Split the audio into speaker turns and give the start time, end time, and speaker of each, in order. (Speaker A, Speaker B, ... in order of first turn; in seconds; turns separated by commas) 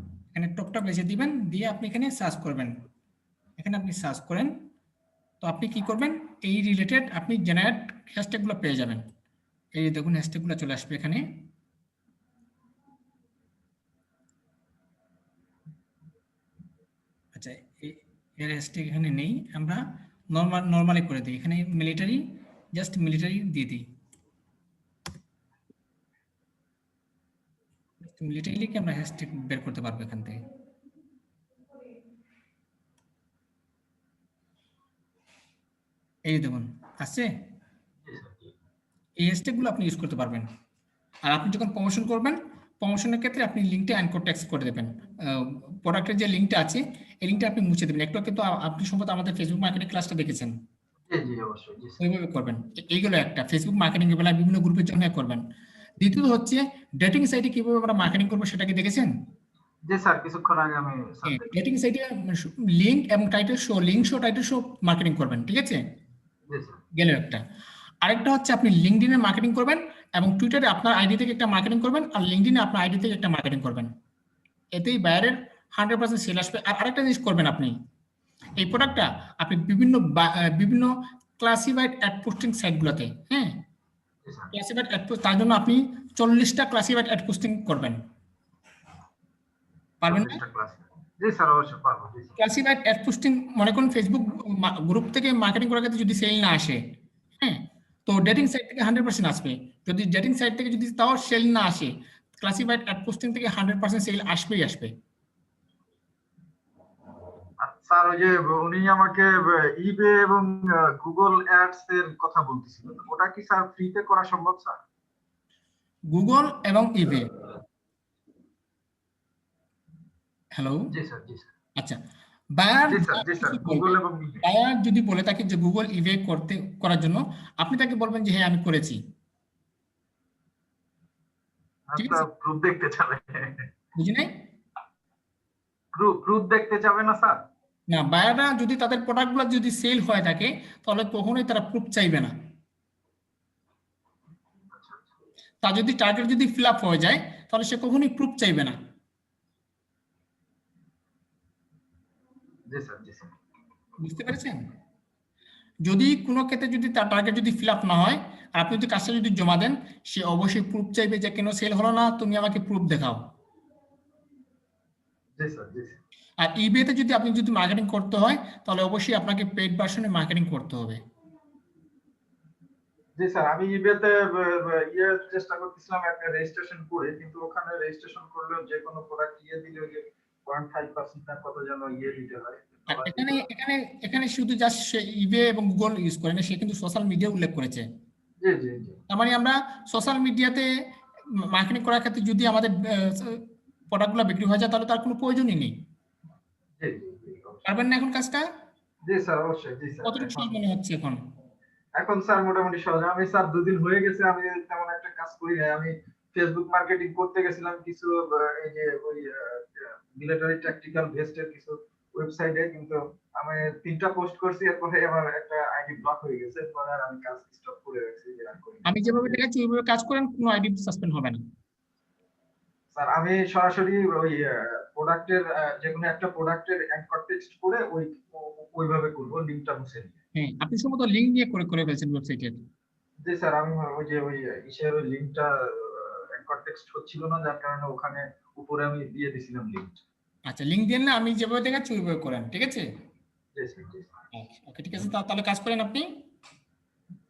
Speaker A: 0.3-2.7, Speaker A: 3.6-4.5, Speaker A: 5.4-9.0, Speaker A: 9.7-11.2, Speaker A: 17.3-19.8, Speaker A: 20.3-22.2, Speaker A: 22.7-23.8, Speaker A: 28.0-30.4, Speaker A: 36.3-37.3, Speaker B: 38.0-38.5, Speaker A: 39.2-40.5, Speaker A: 41.3-50.5, Speaker B: 51.1-52.0, Speaker A: 52.0-55.4, Speaker A: 56.0-59.1, Speaker B: 59.9-61.6, Speaker A: 61.3-65.8, Speaker B: 66.5-66.8, Speaker A: 67.0-67.4, Speaker A: 68.0-73.9, Speaker A: 74.8-77.7, Speaker A: 78.6-83.5, Speaker B: 84.2-84.5, Speaker A: 84.5-88.0, Speaker A: 90.0-90.4, Speaker B: 90.1-92.3, Speaker A: 92.4-96.8, Speaker A: 97.4-104.9, Speaker B: 107.6-114.8, Speaker A: 116.1-117.3, Speaker A: 120.6-120.8, Speaker B: 120.9-121.5, Speaker A: 122.6-129.0, Speaker B: 122.9-124.4, Speaker B: 131.9-133.7, Speaker A: 132.0-132.2, Speaker A: 134.0-134.3, Speaker B: 135.9-137.4, Speaker A: 137.9-142.3, Speaker B: 144.7-145.1, Speaker A: 145.6-148.7, Speaker B: 152.7-153.3, Speaker A: 154.0-154.6, Speaker A: 155.8-163.2, Speaker B: 165.4-166.0, Speaker A: 166.4-171.0, Speaker B: 173.2-183.5, Speaker A: 182.9-187.8, Speaker B: 188.4-189.0, Speaker A: 189.1-190.7, Speaker A: 191.5-193.4, Speaker A: 193.9-195.7, Speaker B: 196.8-197.7, Speaker A: 197.7-198.4, Speaker B: 199.1-200.6, Speaker A: 200.0-201.2, Speaker B: 202.0-219.4, Speaker A: 218.9-221.4, Speaker B: 222.9-230.2, Speaker A: 230.3-232.6, Speaker B: 233.2-240.0, Speaker A: 240.5-242.8, Speaker B: 243.6-244.2, Speaker A: 244.3-246.1